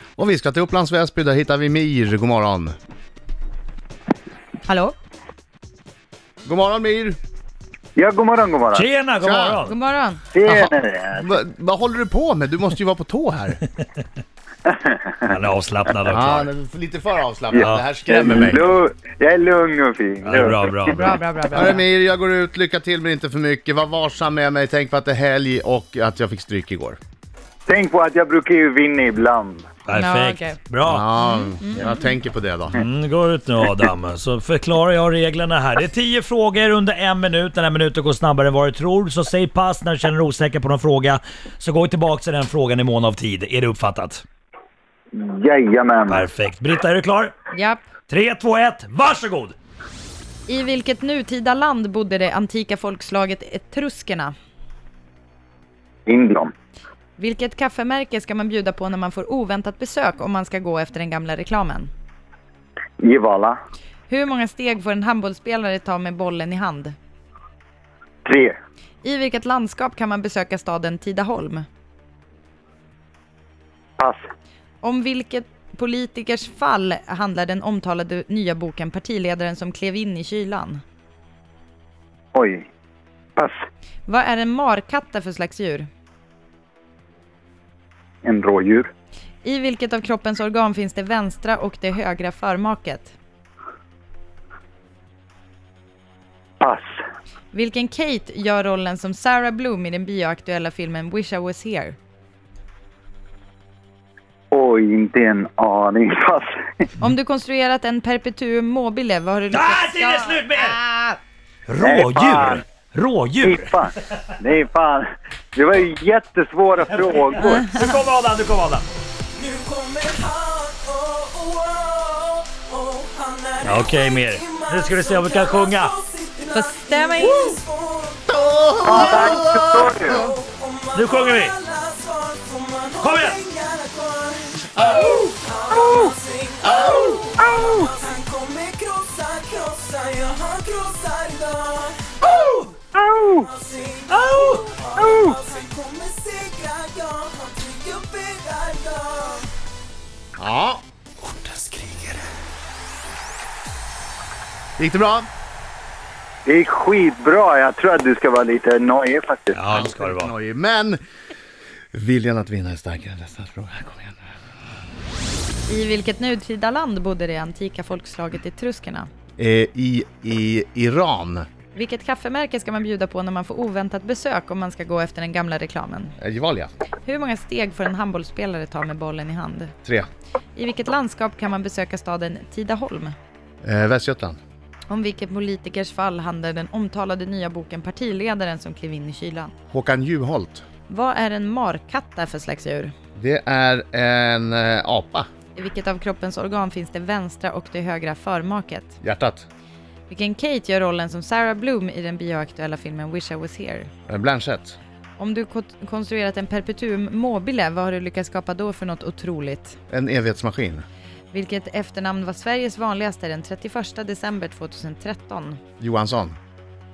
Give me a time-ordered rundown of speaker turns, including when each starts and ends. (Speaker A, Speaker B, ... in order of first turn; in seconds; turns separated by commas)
Speaker A: 0.2-2.7, Speaker B: 4.7-4.9, Speaker A: 6.5-7.2, Speaker C: 8.0-8.9, Speaker D: 8.7-9.7, Speaker A: 9.2-9.7, Speaker B: 9.7-10.2, Speaker C: 10.3-11.3, Speaker A: 10.4-13.6, Speaker C: 14.7-15.4, Speaker D: 15.3-16.5, Speaker A: 16.1-18.6, Speaker C: 17.5-21.0, Speaker D: 20.2-21.2, Speaker B: 20.9-21.8, Speaker A: 21.5-27.0, Speaker C: 27.7-29.7, Speaker D: 29.9-31.1, Speaker B: 29.9-30.6, Speaker A: 30.8-32.8, Speaker B: 31.2-32.0, Speaker D: 32.7-44.2, Speaker C: 45.1-46.3, Speaker D: 46.1-47.4, Speaker B: 47.5-47.9, Speaker D: 48.1-49.5, Speaker B: 50.5-54.3, Speaker C: 56.1-56.5, Speaker B: 57.2-61.9, Speaker C: 63.0-63.6, Speaker B: 64.1-67.0, Speaker C: 68.2-68.6, Speaker B: 69.0-71.7, Speaker B: 74.8-80.8, Speaker C: 82.3-82.7, Speaker B: 84.1-85.9, Speaker C: 88.2-88.9, Speaker B: 89.4-93.2, Speaker C: 96.6-97.0, Speaker B: 97.5-102.0, Speaker C: 104.5-106.9, Speaker B: 107.0-111.2, Speaker D: 109.5-110.8, Speaker D: 111.7-113.7, Speaker C: 111.8-112.7, Speaker C: 113.4-117.7, Speaker D: 117.4-118.9, Speaker B: 117.5-118.0, Speaker E: 119.3-128.3, Speaker D: 123.6-125.9, Speaker B: 126.5-127.6, Speaker A: 128.3-130.3, Speaker C: 128.8-130.3, Speaker E: 128.9-129.5, Speaker E: 130.0-142.7, Speaker D: 130.9-131.6, Speaker D: 133.0-133.4, Speaker C: 135.8-136.1, Speaker C: 136.8-137.9, Speaker C: 142.9-143.5, Speaker E: 143.4-149.5, Speaker D: 144.1-144.6, Speaker C: 145.0-145.3, Speaker A: 150.4-150.8, Speaker D: 151.3-152.2, Speaker A: 154.8-155.3, Speaker C: 156.5-159.7, Speaker D: 159.5-160.3, Speaker A: 159.7-161.0, Speaker A: 161.9-164.2, Speaker B: 165.7-169.1, Speaker A: 169.4-171.5, Speaker B: 171.7-176.2, Speaker A: 176.2-176.7, Speaker B: 177.1-179.7, Speaker B: 180.6-183.2, Speaker A: 183.6-184.4, Speaker B: 184.9-189.5, Speaker A: 189.7-190.7, Speaker B: 190.9-192.9, Speaker A: 193.2-195.3, Speaker B: 195.6-199.0, Speaker A: 199.0-199.5, Speaker B: 200.1-203.9, Speaker A: 204.1-204.8, Speaker B: 205.2-209.8, Speaker A: 209.9-210.8, Speaker B: 211.3-215.6, Speaker A: 215.8-216.4